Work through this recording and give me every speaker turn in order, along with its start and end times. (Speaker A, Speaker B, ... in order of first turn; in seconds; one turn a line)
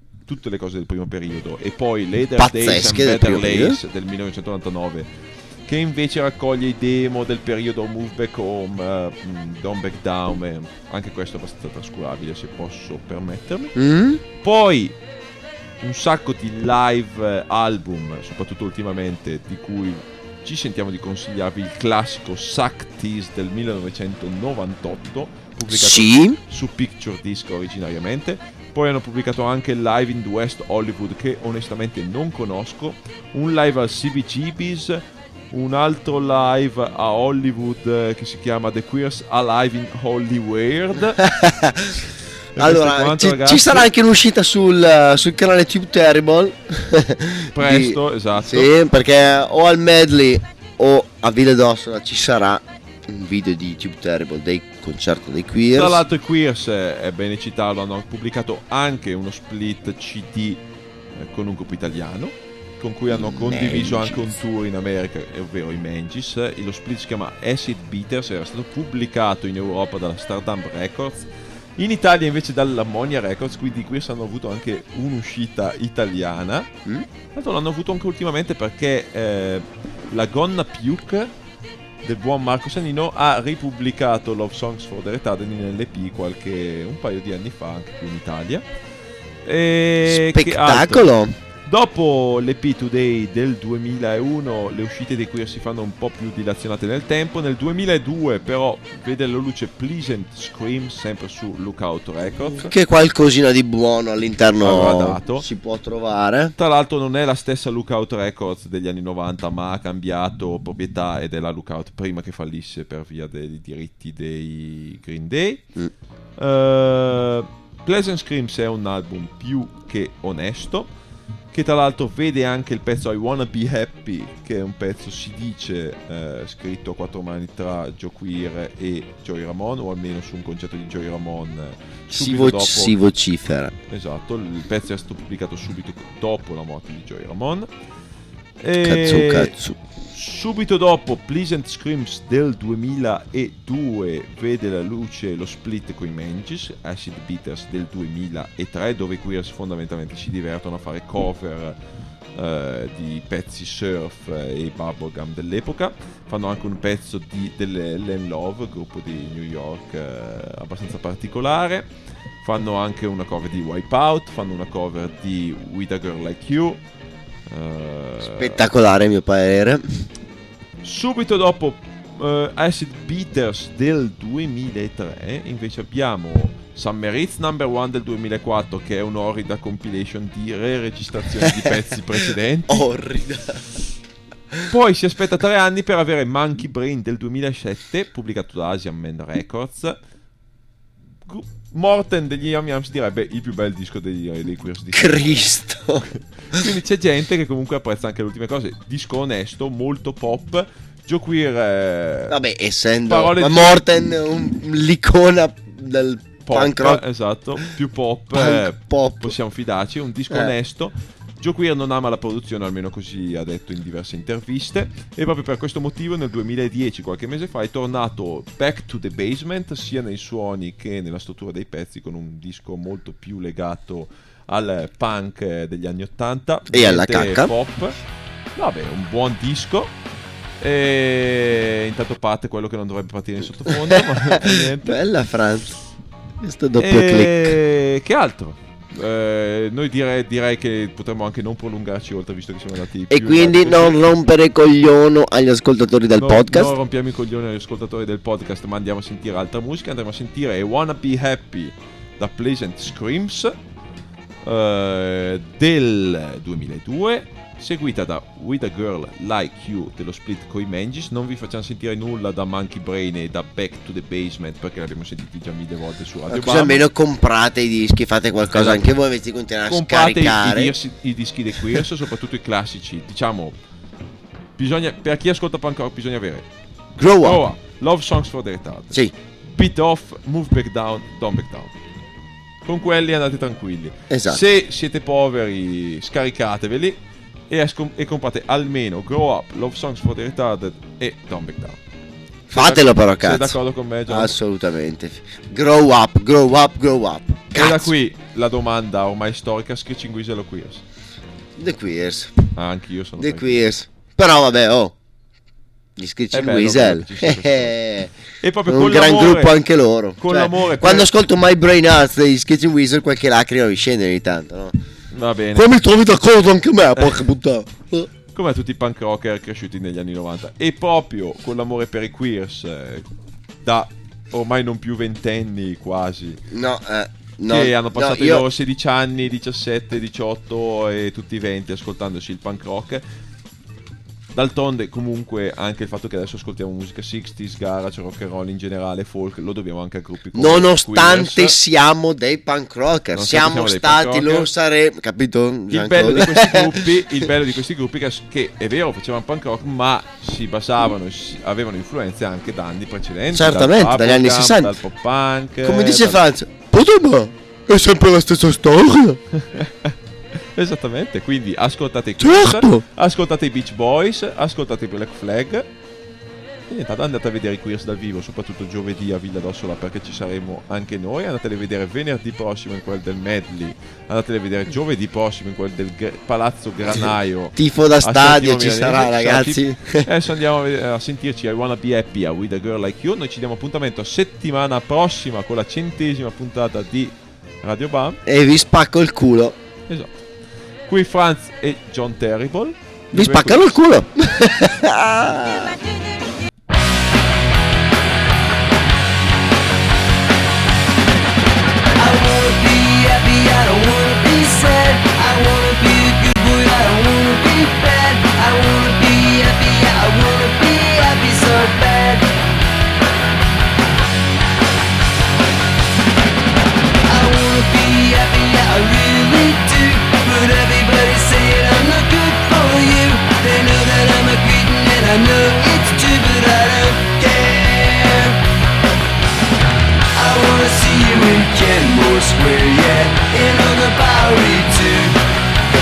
Speaker A: 0.3-5.1
Speaker B: 2.4-3.8
Speaker A: 5.7-13.8
Speaker B: 13.8-14.2
Speaker A: 14.4-15.0
Speaker A: 15.8-41.2
Speaker B: 25.7-26.4
Speaker B: 41.2-42.0
Speaker A: 42.6-43.9
Speaker B: 42.6-56.0
Speaker A: 47.6-48.7
Speaker A: 55.8-60.6
Speaker A: 61.2-76.7
Speaker B: 63.1-64.4
Speaker A: 77.3-81.3
Speaker A: 82.0-88.6
Speaker A: 89.5-91.0
Speaker B: 90.0-91.3
Speaker A: 91.7-102.7
Speaker B: 102.5-106.5
Speaker A: 104.6-105.5
Speaker A: 106.6-115.6
Speaker A: 116.4-120.9
Speaker A: 121.5-132.9
Speaker B: 132.1-133.8
Speaker A: 133.9-137.7
Speaker A: 138.6-139.5
Speaker B: 138.8-139.8
Speaker A: 140.1-151.8
Speaker A: 152.3-161.9
Speaker A: 162.4-166.8
Speaker A: 167.5-168.6
Speaker B: 168.2-169.8
Speaker A: 170.8-182.9
Speaker B: 182.7-183.6
Speaker A: 184.7-190.0
Speaker A: 191.3-195.5
Speaker B: 194.9-196.6
Speaker A: 196.5-202.4
Speaker B: 202.3-207.0
Speaker A: 203.1-203.9
Speaker A: 206.5-228.0
Speaker B: 208.3-209.3
Speaker B: 226.7-227.5
Speaker A: 228.6-229.9
Speaker A: 230.6-235.0
Speaker B: 233.9-235.7
Speaker B: 236.4-237.6
Speaker A: 236.8-244.0
Speaker B: 243.1-246.7
Speaker A: 246.2-253.6
Speaker A: 254.4-266.8
Speaker B: 266.3-270.7
Speaker A: 268.5-268.8
Speaker A: 269.7-273.6
Speaker A: 274.6-276.5
Speaker B: 277.0-277.4
Speaker A: 277.2-281.8
Speaker A: 282.6-287.0
Speaker B: 284.1-284.4
Speaker A: 287.5-291.8
Speaker A: 292.5-294.3
Speaker B: 292.5-297.9
Speaker A: 297.5-300.8
Speaker B: 301.6-302.3
Speaker A: 302.6-303.6
Speaker B: 303.2-304.9
Speaker B: 306.0-308.1
Speaker A: 306.3-307.7
Speaker A: 308.4-309.6
Speaker B: 308.7-314.8
Speaker A: 310.2-311.1
Speaker A: 315.1-315.7
Speaker B: 315.5-318.1
Speaker A: 318.3-323.1
Speaker A: 323.6-326.4
Speaker B: 326.5-328.5
Speaker A: 327.5-333.0
Speaker A: 334.3-341.5
Speaker B: 340.3-347.3
Speaker A: 343.1-344.5
Speaker A: 345.7-356.2
Speaker B: 353.3-354.8
Speaker B: 355.6-359.2
Speaker A: 359.4-359.9
Speaker A: 360.6-365.7
Speaker B: 362.2-362.8
Speaker A: 366.7-388.2
Speaker B: 376.9-380.1
Speaker B: 388.3-389.6
Speaker A: 390.9-393.8
Speaker B: 393.1-395.8
Speaker C: 402.0-412.3
Speaker C: 417.1-428.4
Speaker C: 430.1-435.2